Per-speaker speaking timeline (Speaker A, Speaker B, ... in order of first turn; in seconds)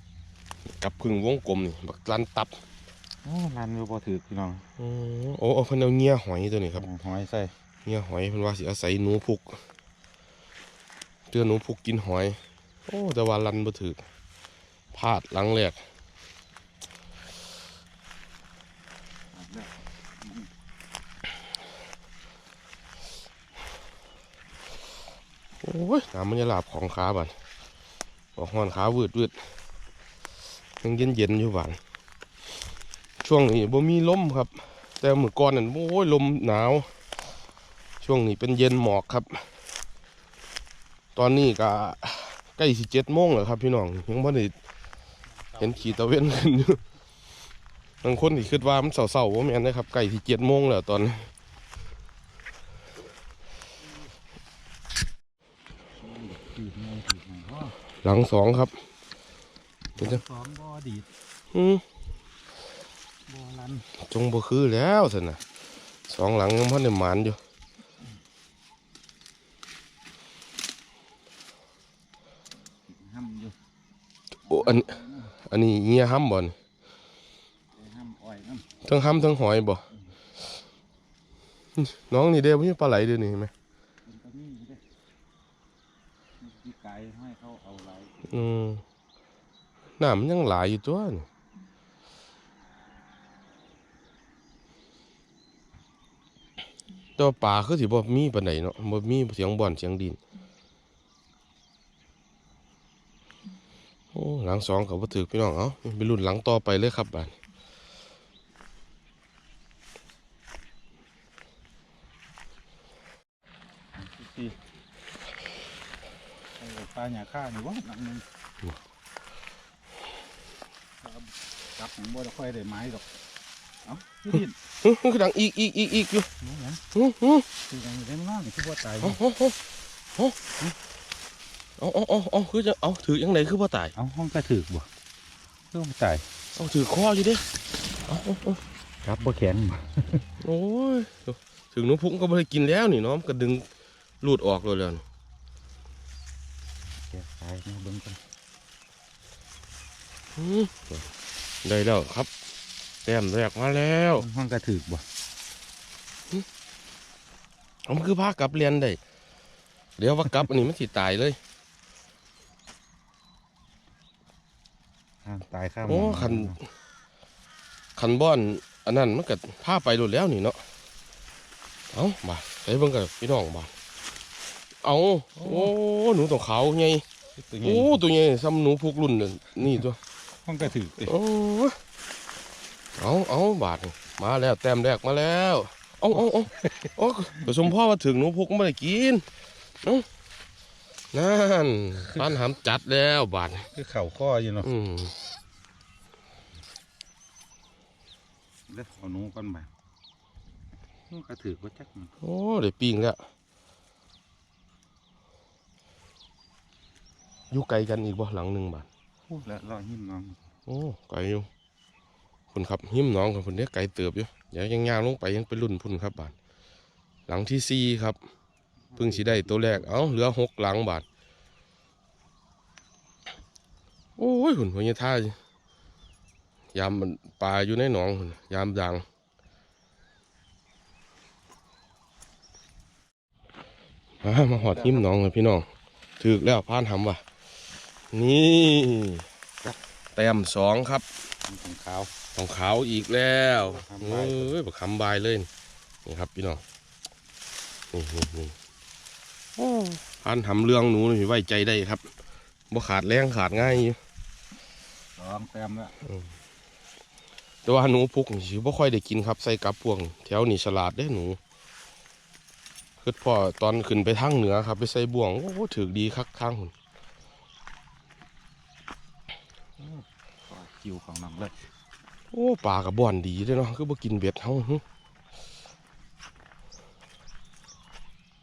Speaker A: 0.7-2.6, 4.8-6.8, 7.8-9.6, 11.3-14.0, 14.9-15.8, 25.6-27.3, 28.4-29.4, 30.8-31.8, 33.2-36.9, 38.0-39.5, 41.1-44.5, 45.6-46.8, 48.0-51.3, 58.0-58.7, 61.5-61.8, 64.0-65.4, 66.1-67.4, 74.5-76.5, 78.8-79.8, 81.8-83.5, 88.3-88.8, 90.0-91.2, 97.2-100.2, 104.1-107.3, 124.8-126.3, 126.9-127.5, 129.0-129.6, 131.8-133.9, 136.6-137.4, 138.1-138.6, 140.4-143.7, 144.2-145.0, 150.3-151.1, 151.6-152.3, 153.0-154.2, 157.9-159.0, 160.0-161.4, 165.8-166.6, 168.0-170.6, 171.9-173.7, 174.8-177.0, 177.6-180.0, 181.1-181.8, 183.0-189.2, 191.1-193.7, 194.6-195.1, 202.2-203.2, 207.5-208.9, 210.7-211.5, 212.5-216.3, 217.3-218.2, 219.0-221.0, 224.2-225.3, 226.7-229.0, 234.2-235.7, 236.2-237.2, 238.1-239.2, 240.1-241.1, 242.3-245.5, 246.0-246.6, 247.9-248.5, 249.6-252.1, 252.7-254.0, 257.6-261.4, 263.0-266.7, 272.3-274.8
Speaker B: 3.2-4.6, 6.8-7.5, 19.3-20.5, 45.5-46.1, 56.0-57.7, 59.9-61.1, 63.3-63.9, 72.8-73.5, 74.5-75.3, 77.7-78.7, 84.0-84.8, 86.4-88.5, 113.9-114.6, 116.6-118.2, 121.0-123.1, 123.8-124.6, 126.4-126.8, 127.7-129.2, 133.9-134.9, 135.7-136.2, 139.0-140.2, 147.1-148.2, 154.2-155.0, 165.2-166.6, 175.4-175.7, 177.4-178.0, 180.4-181.1, 193.7-194.7, 198.7-199.7, 201.1-202.1, 209.3-210.4, 218.9-219.9, 234.4-235.1, 241.5-242.1, 243.6-244.6, 255.2-255.9, 269.8-271.6